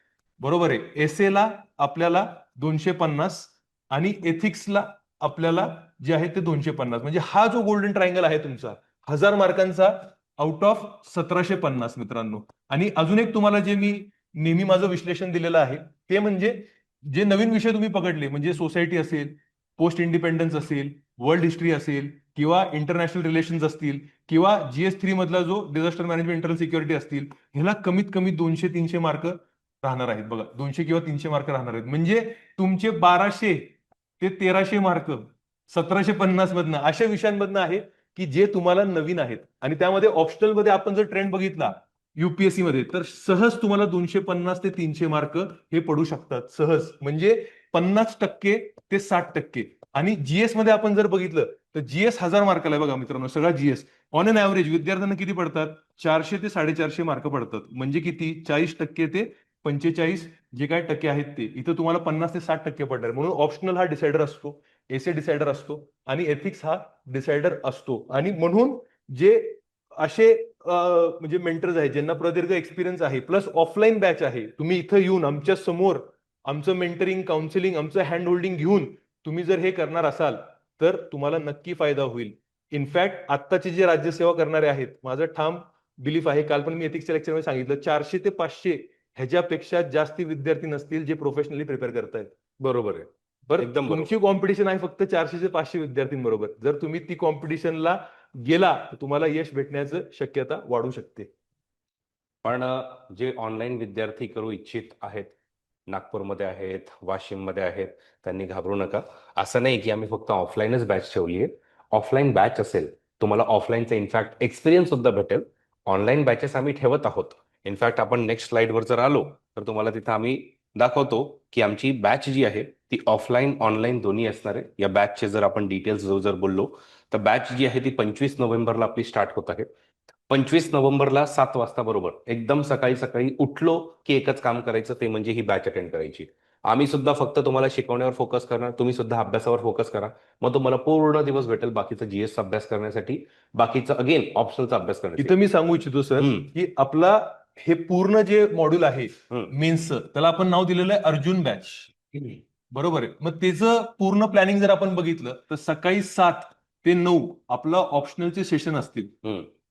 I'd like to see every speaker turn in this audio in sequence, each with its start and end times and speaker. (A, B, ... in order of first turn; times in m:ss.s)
0:00.4-1:32.3 A
1:32.6-1:34.1 B
1:33.5-1:41.3 A
1:42.4-1:45.4 B
1:45.9-2:09.7 B
2:10.3-2:25.4 B
2:25.2-2:31.9 A
2:26.2-2:26.5 B
2:32.7-2:39.2 A
2:39.2-2:39.5 B